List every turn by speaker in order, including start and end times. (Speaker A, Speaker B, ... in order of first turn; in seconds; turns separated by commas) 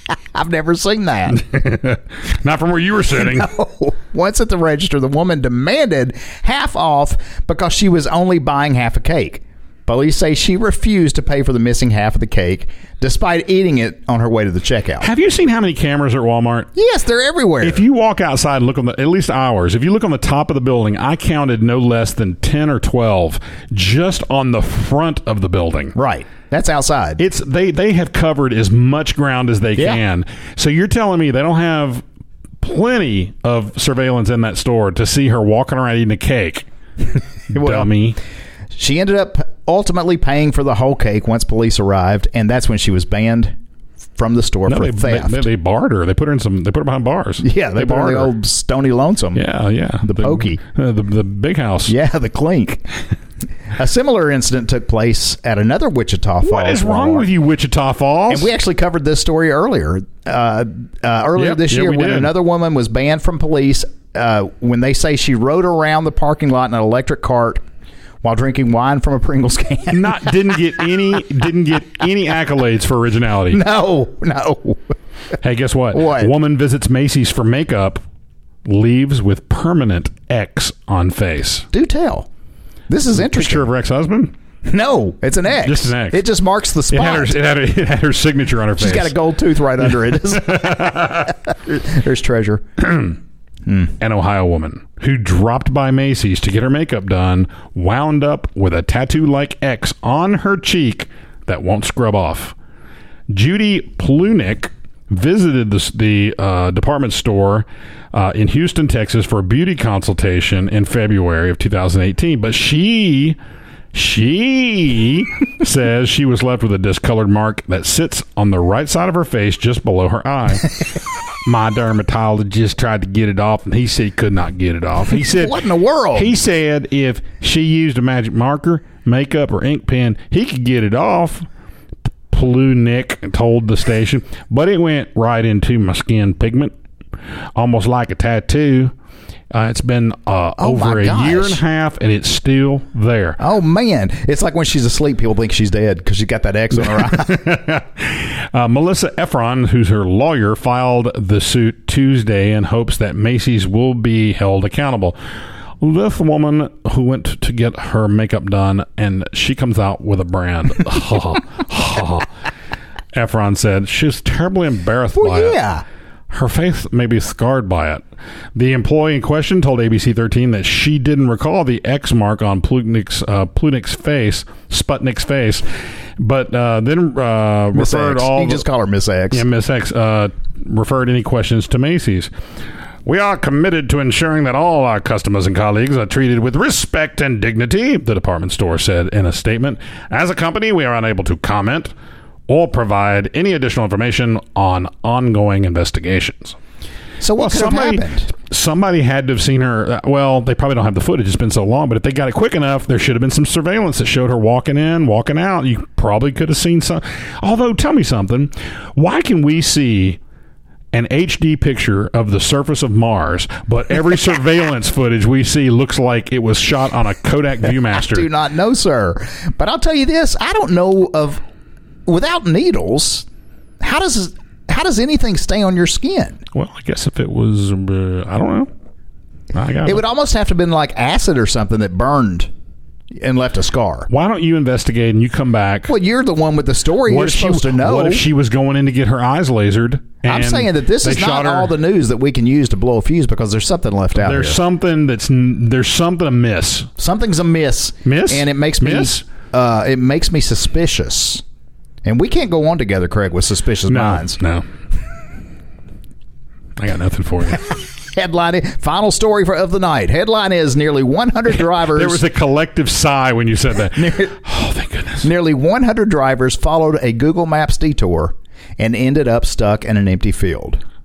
Speaker A: 0.3-1.4, Speaker B: 1.3-3.5, Speaker A: 3.1-15.1, Speaker B: 15.0-16.7, Speaker A: 16.7-17.8, Speaker B: 17.6-25.9, Speaker A: 25.9-27.2, Speaker B: 27.2-32.0, Speaker B: 32.6-36.7, Speaker B: 37.5-38.2, Speaker A: 37.5-37.9, Speaker A: 38.7-43.5, Speaker A: 44.2-45.5, Speaker B: 44.6-48.3, Speaker A: 47.4-49.4, Speaker B: 49.3-51.9, Speaker A: 50.0-50.6, Speaker A: 51.9-52.8, Speaker A: 53.7-57.3, Speaker B: 56.4-58.5, Speaker A: 58.3-67.6, Speaker B: 61.4-62.3, Speaker A: 68.2-70.3, Speaker B: 69.9-73.6, Speaker A: 73.5-74.9, Speaker B: 75.4-78.0, Speaker A: 75.9-76.3, Speaker B: 78.7-81.7, Speaker A: 81.7-82.3, Speaker A: 82.9-83.7, Speaker B: 83.2-84.3, Speaker A: 84.6-87.4, Speaker B: 85.6-86.2, Speaker B: 86.9-89.2, Speaker A: 88.8-92.6, Speaker B: 90.0-91.3, Speaker B: 92.8-93.1, Speaker A: 93.7-93.9, Speaker B: 94.0-102.5, Speaker B: 103.3-113.4, Speaker B: 113.9-120.8, Speaker B: 121.4-125.6, Speaker A: 125.1-126.3, Speaker B: 126.1-131.5, Speaker B: 132.3-136.7, Speaker B: 137.5-138.9, Speaker B: 139.5-143.4, Speaker A: 140.6-141.6, Speaker A: 143.4-147.4, Speaker B: 146.8-155.2, Speaker B: 155.8-162.3, Speaker B: 163.1-165.6, Speaker A: 165.2-165.8, Speaker B: 166.3-175.7, Speaker B: 176.2-178.6, Speaker A: 177.7-179.4, Speaker B: 179.3-182.3, Speaker B: 183.0-191.9, Speaker B: 192.5-196.6, Speaker A: 197.2-198.3, Speaker B: 197.3-210.2, Speaker B: 210.9-218.3, Speaker A: 217.9-221.4, Speaker A: 222.1-223.2, Speaker A: 223.8-226.4, Speaker B: 226.5-228.7, Speaker B: 229.5-230.0, Speaker A: 229.8-232.5, Speaker A: 233.1-234.1, Speaker B: 234.1-235.9, Speaker A: 235.9-238.2, Speaker B: 237.1-241.7, Speaker A: 240.2-244.6, Speaker B: 244.1-246.9, Speaker A: 247.0-251.4, Speaker B: 248.0-249.2, Speaker A: 252.0-254.4, Speaker B: 253.9-254.6, Speaker B: 256.8-257.6, Speaker A: 257.7-262.2, Speaker B: 261.6-265.3, Speaker A: 263.9-264.3, Speaker A: 265.2-270.8